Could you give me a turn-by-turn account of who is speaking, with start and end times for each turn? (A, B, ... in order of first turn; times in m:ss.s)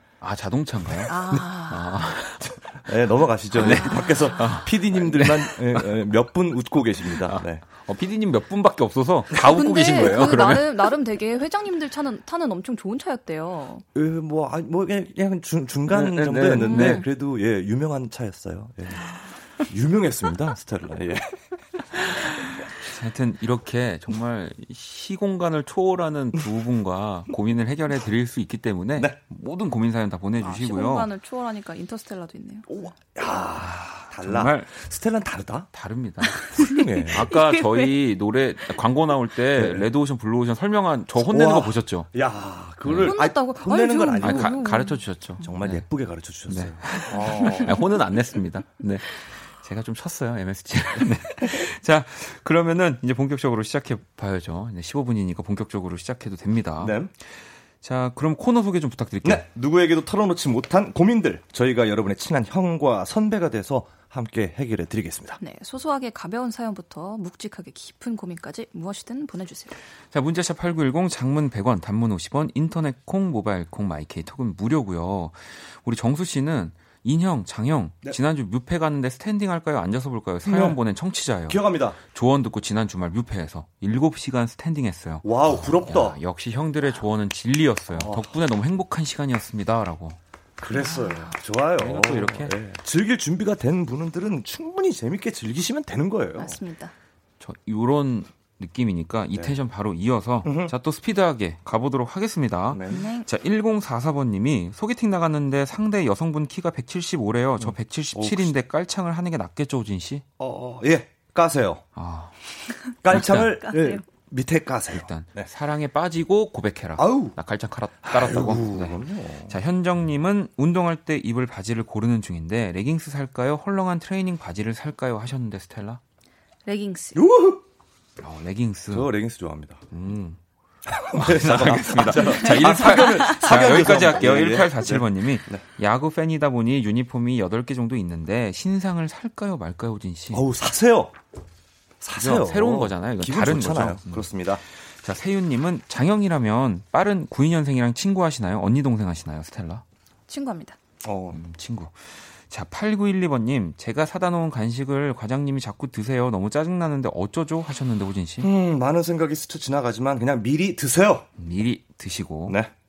0:00.2-0:02.6 A
0:01.1-0:02.0 B
0:02.6-0:07.6 C
0:03.5-0:06.0 A
0:03.6-0:04.6 B
0:07.0-0:10.9 A
0:09.4-0:13.8 B
0:09.5-0:10.6 C
0:14.0-0:21.5 C
0:15.9-0:17.0 A
0:16.5-0:17.1 B
0:22.8-0:31.1 A
0:30.4-0:32.7 B
0:32.7-0:35.7 C
0:33.6-0:34.7 A
0:35.7-0:36.4 A
0:36.3-0:38.0 B
0:36.5-0:37.3 C
0:37.1-0:42.1 A
0:39.5-0:39.9 C
0:41.2-0:44.6 C
0:42.8-0:43.2 A
0:43.0-0:45.4 B
0:44.2-0:45.9 A
0:45.4-0:47.8 C
0:46.5-0:59.5 A
0:46.9-0:47.8 B
0:56.8-0:57.1 C
0:59.2-1:05.4 C
1:05.4-1:09.8 B
1:10.1-1:30.2 A
1:20.4-1:20.8 C
1:21.5-1:22.0 C
1:25.2-1:26.2 C
1:27.9-1:28.3 C
1:30.6-1:36.6 C
1:30.8-1:31.4 B
1:31.8-1:32.5 A
1:36.4-1:36.9 B
1:37.4-1:50.2 A
1:40.4-1:40.7 C
1:42.7-1:43.2 C
1:42.9-1:43.3 B
1:47.6-1:48.5 C
1:50.4-1:51.8 C
1:52.0-1:52.4 A
1:52.7-1:54.1 B
1:53.0-1:55.5 C
1:53.1-1:53.6 A
1:54.9-2:06.0 A
1:57.0-1:57.4 C
1:58.0-1:59.6 C
2:06.6-2:07.2 B
2:07.2-2:07.6 C
2:08.2-2:09.1 A
2:08.9-2:09.8 C
2:09.9-2:10.4 A
2:10.9-2:15.6 C
2:11.1-2:20.4 A
2:12.5-2:13.4 B
2:20.3-2:21.2 C
2:22.0-2:24.6 C
2:22.2-2:29.8 A
2:30.3-2:30.8 B
2:31.0-2:31.4 C
2:31.3-2:38.5 A
2:38.4-2:41.3 C
2:41.4-2:42.6 A